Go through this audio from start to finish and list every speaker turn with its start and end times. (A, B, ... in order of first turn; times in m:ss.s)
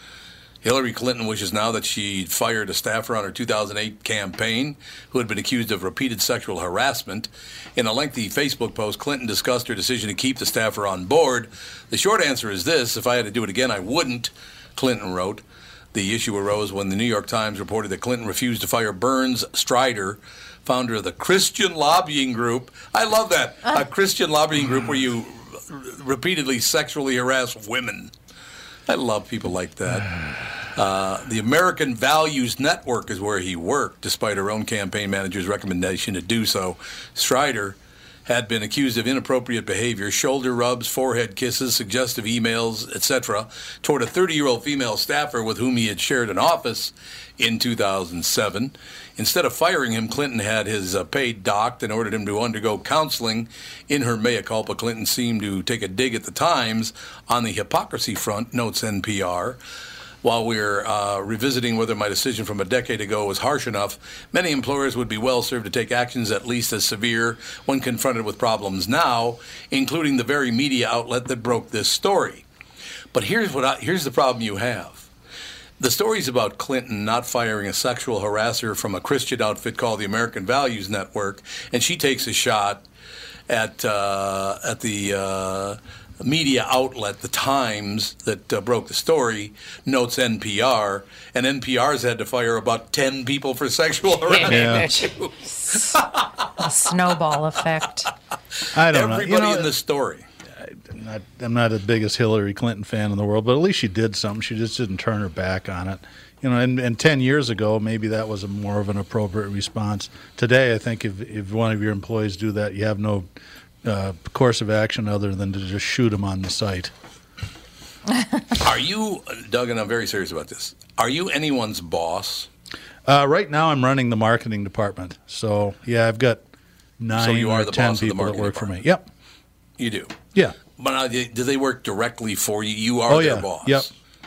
0:00.6-0:15.4 A
0:15.9-0:28.1 A
0:28.9-0:30.1 A
0:30.7-0:59.6 A
1:00.2-1:12.4 A
1:13.1-1:15.1 A
1:15.8-1:22.8 A
1:23.5-1:36.6 A
1:34.3-1:36.0 B
1:34.4-1:34.9 C
1:36.6-1:38.1 B
1:38.7-1:39.7 C
1:38.9-1:40.2 A
1:40.6-1:53.3 C
1:53.8-1:56.9 C
1:58.6-2:02.5 A
2:03.1-2:06.4 C
2:07.0-2:09.1 C
2:07.1-2:08.7 A
2:09.8-2:10.2 A
2:10.8-2:13.9 A
2:13.1-2:13.9 C